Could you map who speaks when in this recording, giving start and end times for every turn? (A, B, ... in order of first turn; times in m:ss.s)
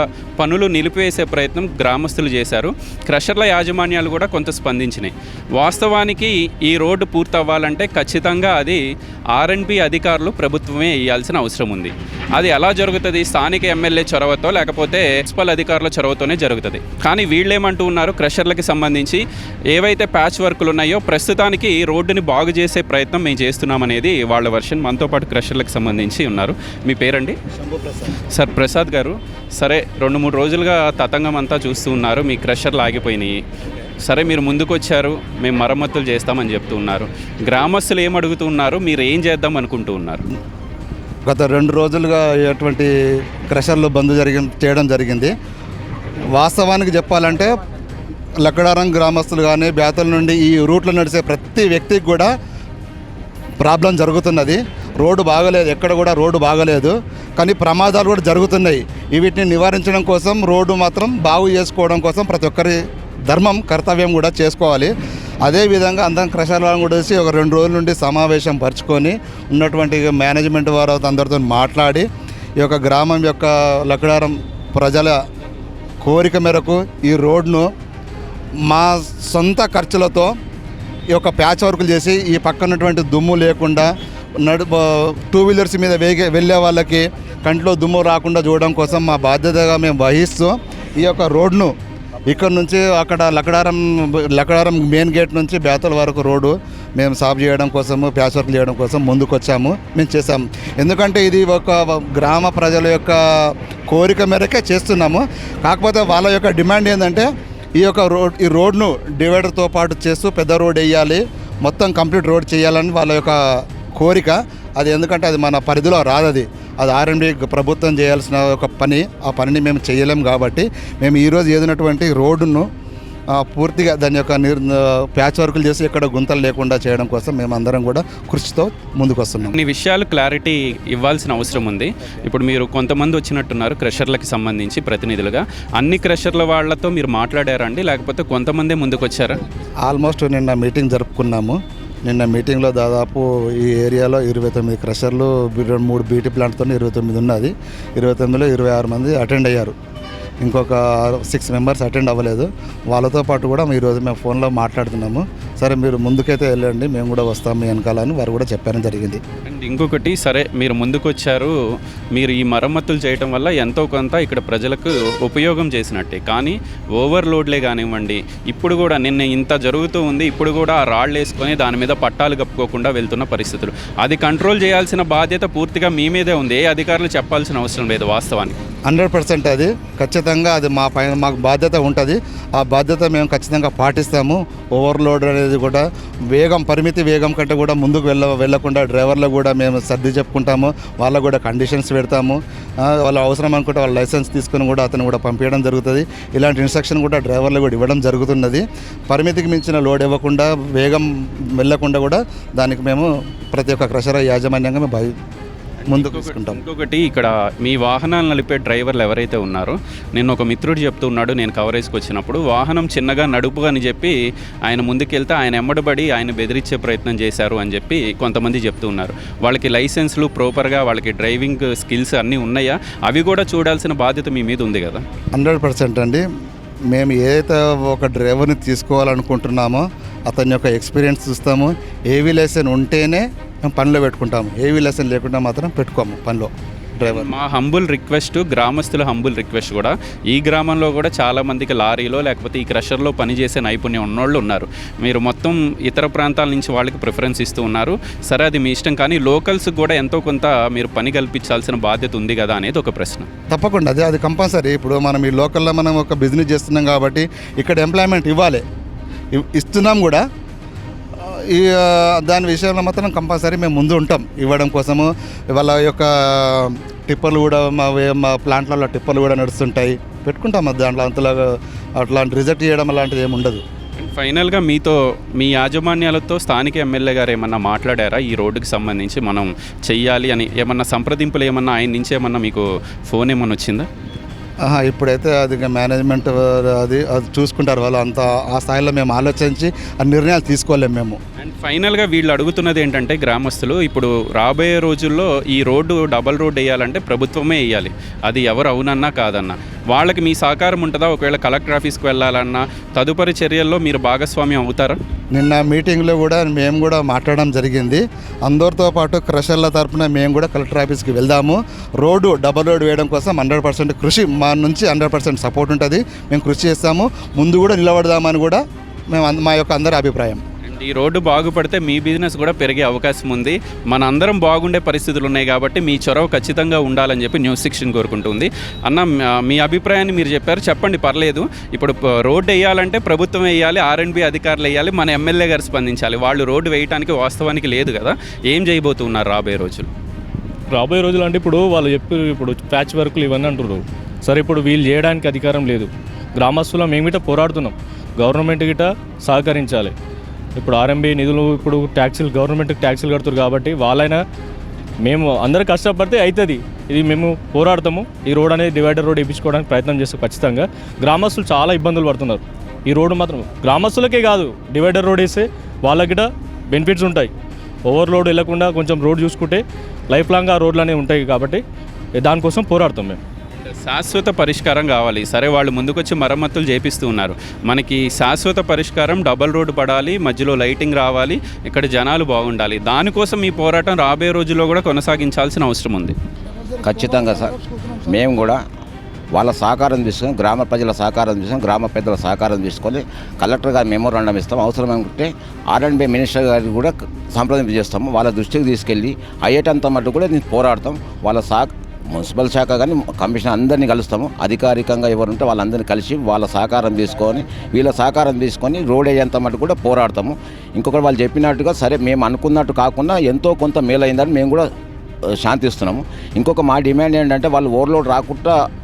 0:00.4-0:08.8 A
0:09.3-0:27.4 A
0:27.6-0:28.2 B
0:28.3-0:33.4 A
0:34.0-0:40.2 A
0:41.2-0:42.9 B
0:43.5-0:45.3 B
0:46.4-0:47.6 B
0:48.4-0:52.3 B
0:53.6-1:04.9 B
1:05.4-1:12.0 B
1:12.6-1:15.2 B
1:16.0-1:17.7 B
1:18.7-1:20.3 B
1:21.1-1:23.9 B
1:24.4-1:31.7 B
1:32.3-2:02.7 B
2:03.4-2:09.6 B
2:09.4-2:19.4 A
2:19.8-2:29.7 B
2:30.4-2:39.2 B
2:39.4-2:41.5 A
2:42.1-2:58.6 A
2:58.9-3:25.1 B
3:25.8-3:34.1 A
3:25.9-3:26.6 B
3:34.7-3:45.0 A
3:45.3-3:46.2 B
3:46.9-3:57.3 B
3:57.0-4:13.3 A
4:13.5-4:18.6 B
4:19.4-4:20.2 B
4:21.2-4:33.6 B
4:34.0-4:43.9 A
4:44.6-4:51.2 B
4:51.4-5:05.0 A
5:05.3-5:18.6 B
5:19.1-5:20.4 B
5:20.6-5:39.9 A
5:40.7-5:49.9 C
5:50.6-5:54.2 C
5:55.0-6:07.3 C
6:07.8-6:11.6 C
6:12.2-6:13.2 C
6:13.5-6:26.1 A
6:26.8-6:28.6 D
6:29.3-6:54.7 D
6:55.4-6:58.5 D